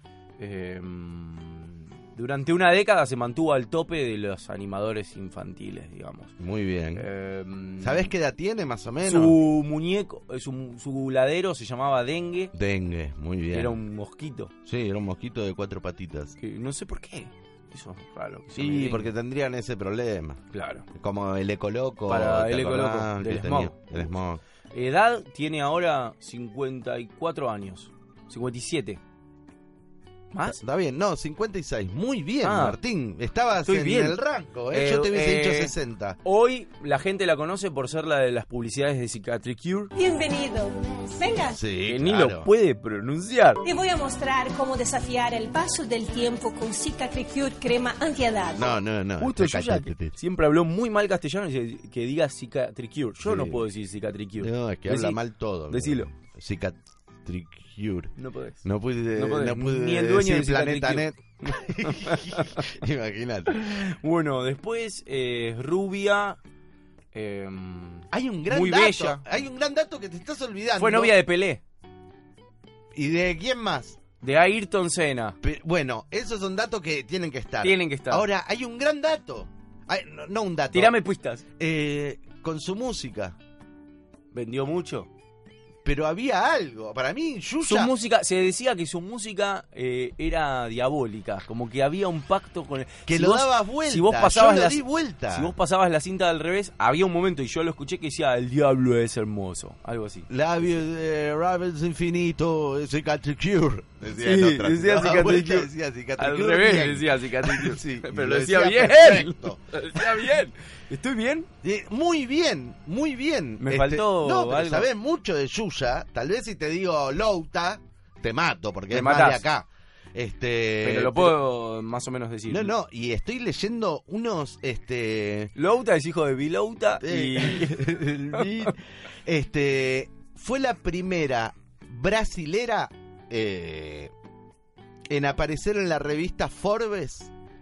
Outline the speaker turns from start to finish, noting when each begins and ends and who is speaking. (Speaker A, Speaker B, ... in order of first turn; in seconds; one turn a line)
Speaker A: 0.4-6.3
Speaker B: 6.4-7.1
Speaker A: 7.0-8.1
Speaker B: 7.8-9.4
Speaker A: 9.0-12.5
Speaker B: 12.5-13.8
Speaker A: 13.5-14.5
Speaker B: 14.6-16.4
Speaker A: 16.4-19.1
Speaker B: 18.5-20.4
Speaker A: 20.5-20.9
Speaker B: 20.9-24.4
Speaker A: 22.1-24.1
Speaker A: 24.7-29.0
Speaker A: 30.3-30.6
Speaker B: 30.4-36.2
Speaker A: 32.4-32.8
Speaker A: 33.6-34.2
Speaker A: 34.7-39.9
Speaker C: 40.0-41.6
Speaker B: 41.5-42.5
Speaker A: 41.9-43.6
Speaker C: 43.6-48.7
Speaker B: 48.5-50.2
Speaker A: 49.2-56.1
Speaker B: 53.2-53.7
Speaker B: 54.4-58.1
Speaker A: 58.1-62.7
Speaker B: 58.6-63.8
Speaker A: 63.5-66.4
Speaker A: 67.1-69.3
Speaker B: 68.1-71.1
Speaker A: 70.8-71.6
Speaker B: 72.9-74.0
Speaker A: 74.2-75.3
Speaker B: 75.4-81.0
Speaker A: 77.6-78.3
Speaker A: 80.7-81.4
Speaker B: 81.6-83.4
Speaker A: 84.3-85.1
Speaker B: 85.8-87.9
Speaker A: 87.6-100.3
Speaker B: 93.0-95.5
Speaker B: 100.3-110.3
Speaker A: 104.1-111.5
Speaker B: 111.6-121.4
Speaker A: 113.6-114.9
Speaker A: 118.9-119.5
Speaker A: 120.8-122.7
Speaker B: 122.5-125.5
Speaker A: 125.5-128.7
Speaker B: 127.0-134.1
Speaker B: 135.1-137.3